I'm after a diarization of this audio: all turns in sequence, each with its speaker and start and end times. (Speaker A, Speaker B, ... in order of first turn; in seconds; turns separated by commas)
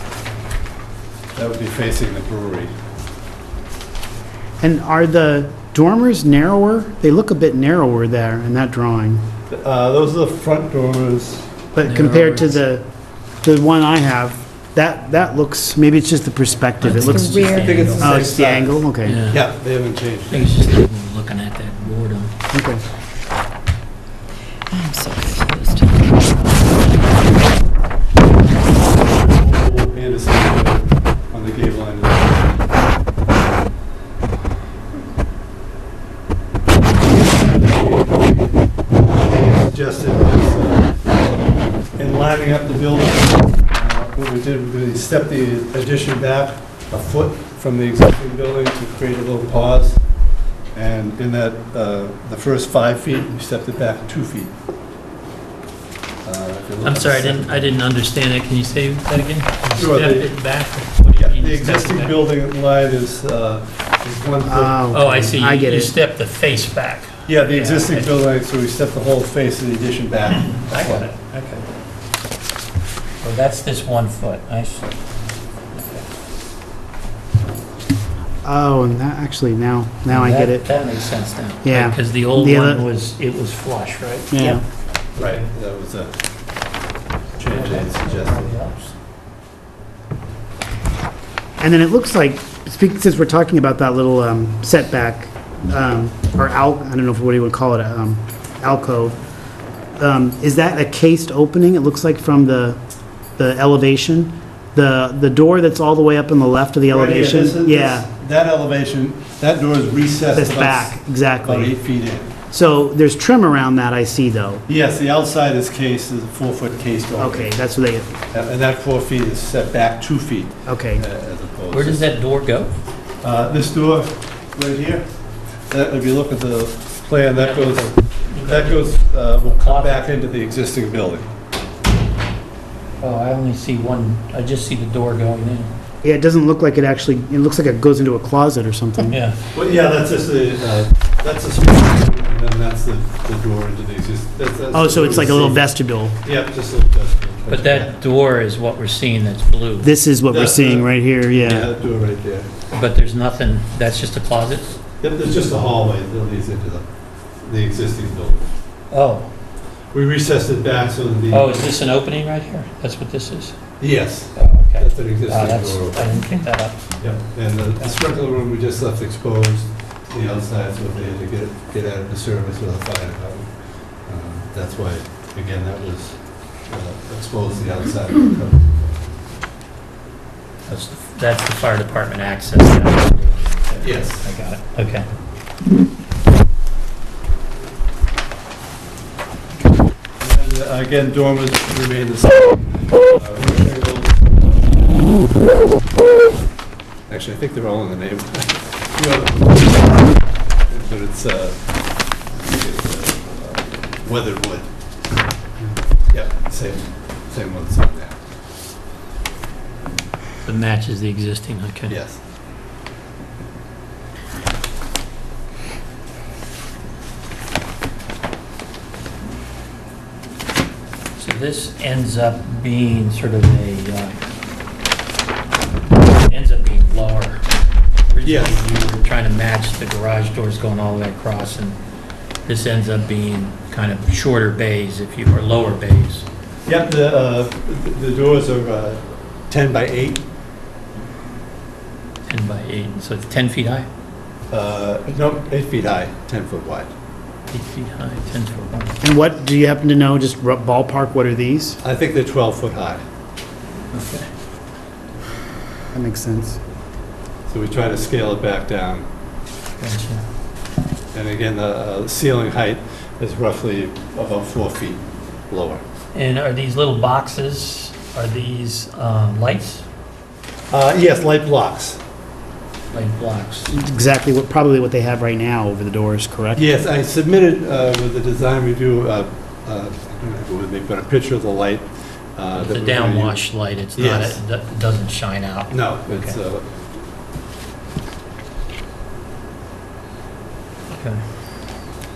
Speaker A: 1.3-2.7, Speaker B: 4.6-9.2, Speaker A: 9.5-11.5, Speaker B: 11.8-12.8, Speaker C: 11.8-12.6, Speaker B: 13.4-19.2, Speaker C: 16.8-18.2, Speaker D: 16.9-18.3, Speaker A: 17.5-20.7, Speaker C: 19.0-19.5, Speaker C: 20.3-22.3, Speaker B: 22.5-22.8, Speaker D: 24.7-26.6, Speaker A: 28.8-32.6, Speaker A: 37.1-38.6, Speaker A: 39.2-40.9, Speaker A: 42.0-50.0, Speaker A: 50.7-54.5, Speaker A: 56.2-57.7, Speaker C: 56.8-62.2, Speaker A: 59.8-60.3, Speaker A: 61.1-64.8, Speaker B: 64.5-65.9, Speaker C: 64.9-68.1, Speaker A: 67.3-71.1, Speaker C: 70.5-71.7, Speaker C: 73.2-74.9, Speaker C: 75.7-76.1, Speaker B: 78.4-80.7, Speaker C: 80.1-84.5, Speaker B: 81.6-82.9, Speaker B: 84.3-84.6, Speaker A: 85.2-86.1, Speaker C: 85.2-85.5, Speaker A: 87.4-88.5, Speaker C: 87.5-88.9, Speaker B: 91.6-99.2, Speaker B: 100.0-102.8, Speaker B: 103.4-108.1, Speaker A: 106.9-112.3, Speaker B: 110.3-111.8, Speaker B: 112.5-114.7, Speaker A: 114.7-117.5, Speaker B: 117.2-118.1, Speaker A: 118.3-122.1, Speaker B: 120.7-121.0, Speaker C: 121.7-122.8, Speaker A: 123.2-125.1, Speaker A: 125.7-131.3, Speaker C: 127.3-130.1, Speaker C: 133.0-135.7, Speaker B: 136.0-139.2, Speaker C: 139.1-139.4, Speaker A: 139.5-145.7, Speaker B: 144.7-146.2, Speaker A: 146.2-148.0, Speaker C: 147.5-149.9, Speaker B: 149.8-151.7, Speaker A: 150.3-152.5, Speaker C: 152.7-154.8, Speaker A: 155.0-156.9, Speaker A: 157.4-158.5, Speaker C: 158.9-159.3, Speaker A: 159.9-161.7, Speaker C: 161.3-163.7, Speaker A: 163.8-166.0, Speaker C: 164.3-167.0, Speaker A: 167.0-173.5, Speaker A: 174.1-178.9, Speaker C: 180.7-185.1, Speaker A: 183.8-184.3, Speaker A: 190.2-194.9, Speaker A: 197.1-200.0, Speaker A: 200.7-201.7, Speaker A: 202.3-204.7, Speaker A: 206.1-208.2, Speaker C: 210.4-212.0, Speaker A: 211.9-212.2, Speaker C: 221.2-224.2, Speaker C: 226.2-227.5, Speaker C: 228.1-231.8, Speaker A: 228.2-228.6, Speaker C: 232.5-236.3, Speaker A: 236.7-240.2, Speaker C: 242.3-243.9, Speaker A: 244.5-246.9, Speaker C: 247.5-249.0, Speaker B: 249.0-251.8, Speaker A: 251.8-253.0, Speaker C: 253.9-254.3, Speaker B: 255.9-256.6, Speaker A: 257.5-259.1, Speaker C: 259.8-260.2, Speaker A: 261.1-265.8, Speaker C: 266.1-269.8, Speaker A: 270.7-272.0, Speaker C: 272.9-273.7, Speaker B: 273.7-276.6, Speaker A: 276.6-283.4, Speaker C: 282.6-286.4, Speaker A: 284.0-284.4, Speaker A: 285.7-286.7, Speaker C: 290.9-291.2